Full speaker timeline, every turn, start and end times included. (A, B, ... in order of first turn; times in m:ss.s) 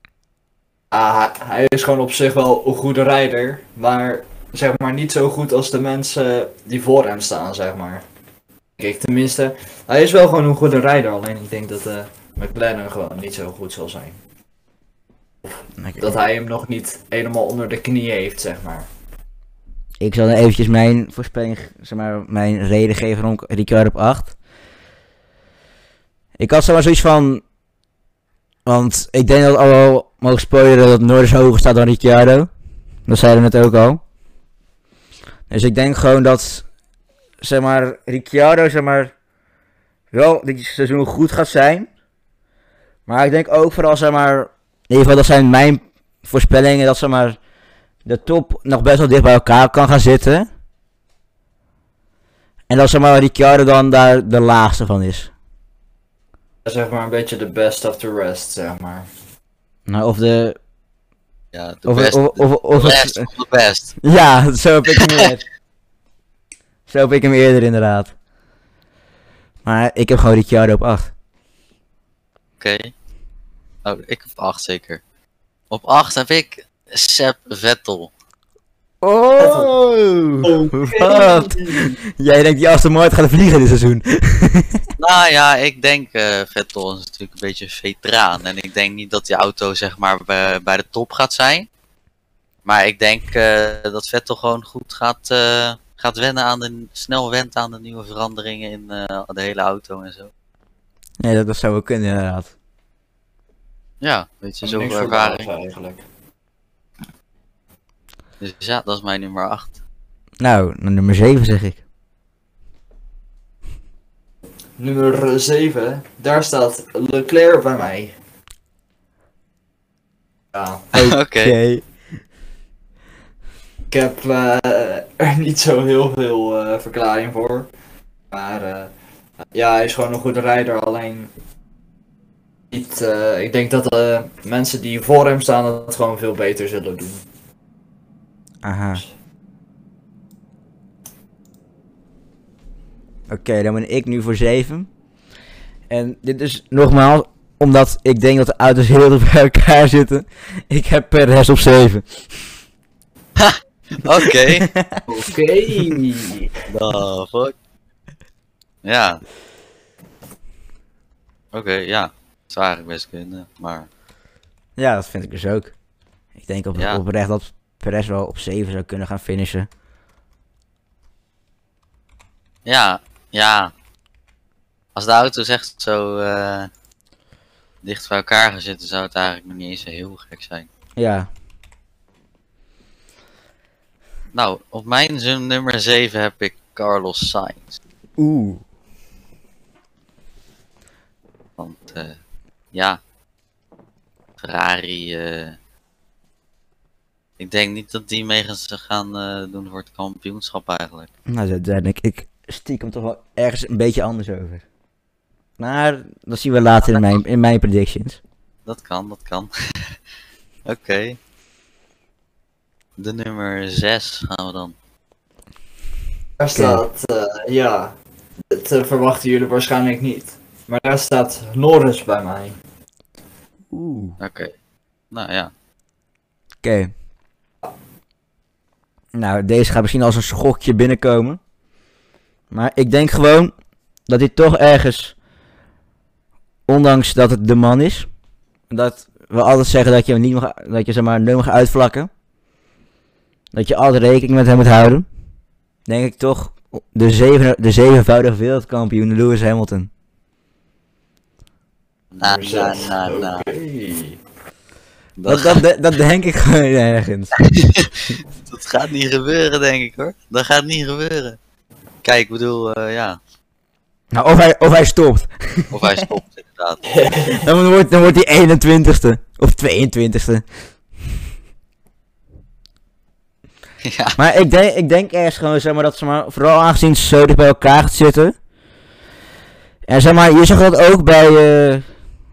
0:00.9-0:08.0 A
0:08.8-0:14.2 A
0:15.4-0:18.9 A
0:15.8-0:16.1 B
0:20.0-0:24.4 B
0:26.4-0:27.4 B
0:28.7-0:32.5 B
0:33.1-0:34.0 B
0:35.5-0:36.7 B
0:37.4-0:39.1 B
0:40.1-0:41.9 B
0:43.1-0:47.4 B
0:48.0-0:50.5 B
0:52.7-0:55.3 B
0:56.6-0:59.1 A
0:59.9-1:00.6 B
1:01.5-1:04.0 C
1:01.9-1:03.3 B
1:04.0-1:05.4 B
1:06.9-1:08.1 B
1:09.6-1:11.1 B
1:12.6-1:12.9 C
1:13.8-1:15.0 C
1:15.7-1:18.1 C
1:19.0-1:24.8 B
1:19.4-1:19.7 A
1:20.4-1:22.0 A
1:25.0-1:31.7 C
1:32.6-1:40.3 C
1:41.2-1:42.5 B
1:44.0-1:45.5 C
1:44.6-1:46.0 A
1:48.4-1:49.8 C
1:50.4-1:51.8 B
1:54.8-1:58.2 A
2:00.5-2:00.9 A
2:01.0-2:01.9 B
2:01.0-2:01.6 C
2:03.9-2:07.7 A
2:08.3-2:08.9 A
2:09.5-2:11.3 A
2:12.7-2:17.2 A
2:18.6-2:19.0 B
2:23.3-2:24.9 B
2:25.9-2:32.3 B
2:33.4-2:34.7 C
2:34.2-2:35.0 B
2:35.1-2:36.6 A
2:36.7-2:37.6 C
2:38.8-2:39.2 C
2:41.5-2:43.9 C
2:44.8-2:45.7 B
2:46.4-2:49.7 B
2:46.8-2:47.0 C
2:52.6-2:53.7 C
2:55.0-2:56.7 C
2:57.8-3:00.7 C
3:01.0-3:01.3 B
3:04.3-3:07.8 C
3:08.2-3:08.6 B
3:11.6-3:12.2 C
3:12.7-3:13.0 C
3:14.4-3:15.6 C
3:17.4-3:21.1 C
3:21.3-3:24.6 B
3:25.6-3:28.2 B
3:28.7-3:30.0 C
3:30.7-3:31.2 C
3:33.0-3:34.8 C
3:36.4-3:38.0 A
3:36.6-3:36.8 B
3:38.5-3:42.6 A
3:43.7-3:44.2 B
3:44.2-3:44.5 C
3:45.1-3:45.5 C
3:46.6-3:46.9 B
3:49.2-3:51.4 B
3:52.5-3:53.5 B
3:54.1-3:55.2 B
3:56.7-3:58.1 B
3:58.7-4:02.1 B
4:03.5-4:05.1 B
4:05.9-4:09.9 B
4:12.1-4:13.5 C
4:12.2-4:14.2 A
4:15.2-4:15.6 C
4:15.3-4:17.3 B
4:17.4-4:21.4 C
4:22.0-4:23.2 C
4:24.1-4:26.1 B
4:25.7-4:26.9 C
4:26.9-4:27.5 A
4:27.3-4:30.4 B
4:33.8-4:34.2 C
4:34.2-4:38.3 B
4:39.9-4:41.9 B